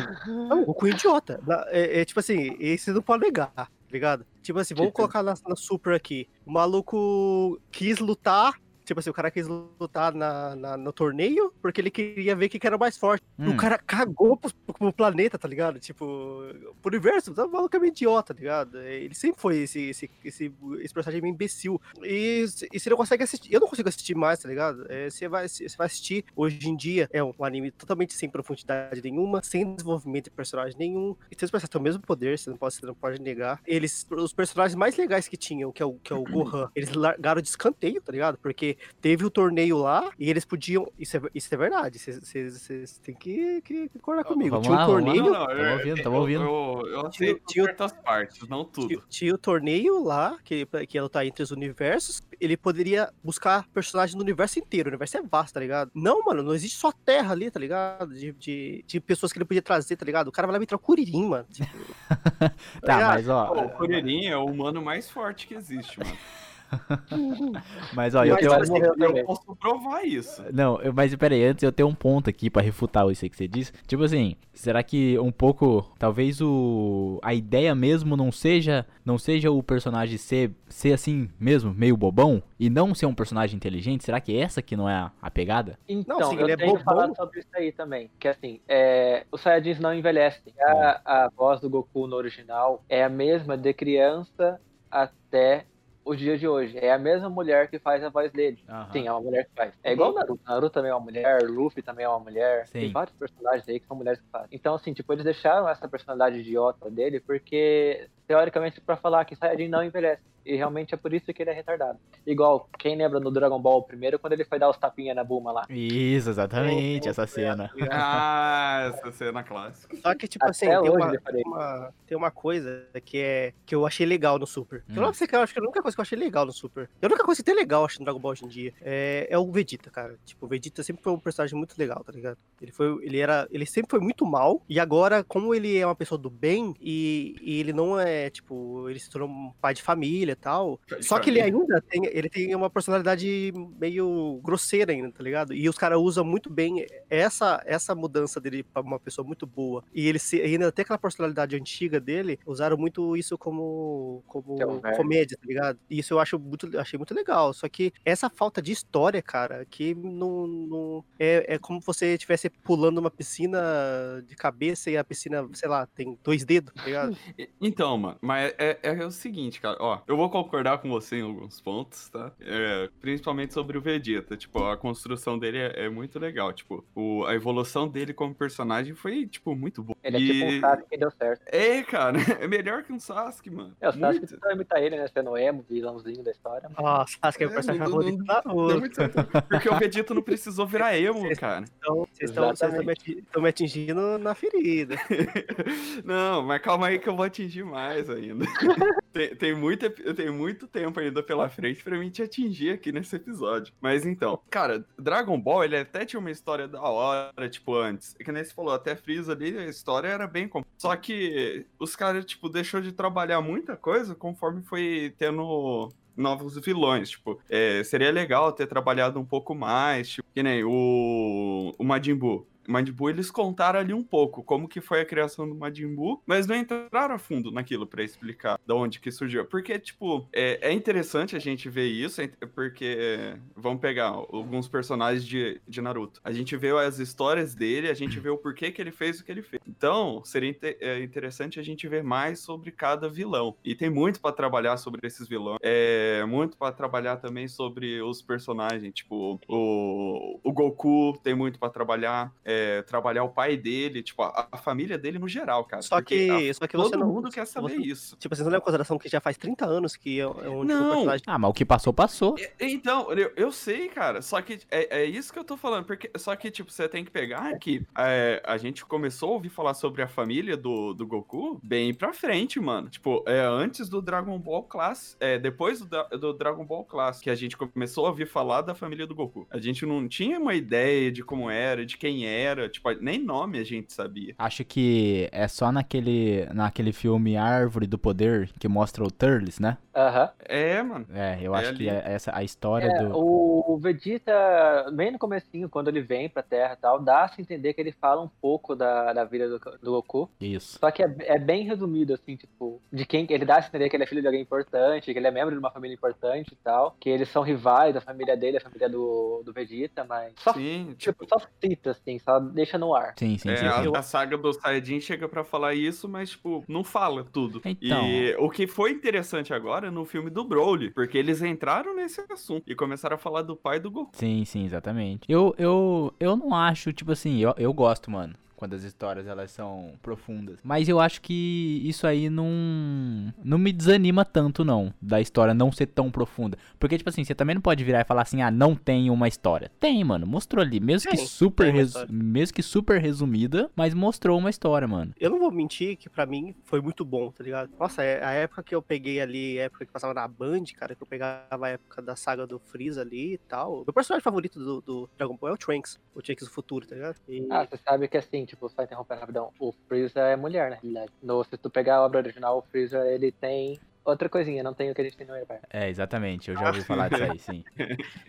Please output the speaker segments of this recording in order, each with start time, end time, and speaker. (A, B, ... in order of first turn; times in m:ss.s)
0:00.5-0:45.4 A
0:13.4-0:13.7 B
0:44.2-0:46.5 B
0:45.0-0:49.0 C
0:47.1-0:47.7 A
0:48.8-1:01.9 A
1:02.1-1:03.7 B
1:02.8-1:04.0 A
1:03.5-1:06.2 C
1:06.7-1:07.1 B
1:07.1-1:07.6 A
1:07.8-1:08.8 B
1:08.2-1:10.5 C
1:08.2-1:09.3 D
1:10.4-1:25.8 B
1:25.9-1:55.7 D
1:26.1-1:27.2 A
1:30.7-1:30.9 B
1:38.7-1:39.1 B
1:39.9-1:40.2 A
1:42.7-1:43.0 B
1:55.7-1:57.8 B
1:56.6-1:58.2 A
1:57.9-2:00.2 C
2:00.0-2:47.2 A
2:00.4-2:01.5 D
2:04.9-2:05.2 B
2:20.9-2:21.5 C
2:34.6-2:35.0 D
2:47.4-3:00.8 C
3:00.0-3:01.4 D
3:01.5-3:04.4 C
3:03.8-3:06.8 D
3:06.8-3:09.3 A
3:07.4-3:11.7 C
3:10.8-3:15.0 A
3:12.2-3:12.9 D
3:15.0-4:18.2 C
4:15.8-4:21.2 A
4:20.6-4:21.2 C
4:21.3-4:22.4 B
4:22.4-4:44.4 C
4:44.4-4:49.8 B
4:50.0-4:50.3 D
4:50.4-4:52.0 C
4:51.1-4:53.2 B
4:52.8-5:13.2 D
5:00.4-5:00.8 B
5:10.5-5:11.3 C
5:13.2-5:14.0 B
5:13.4-5:24.1 C
5:13.7-5:14.0 A
5:17.6-5:18.3 B
5:24.1-5:45.2 B
5:41.0-5:42.1 A
5:45.2-5:57.7 A
5:57.5-6:05.6 D
6:05.7-6:07.6 B
6:06.6-6:07.2 A
6:07.1-6:08.1 C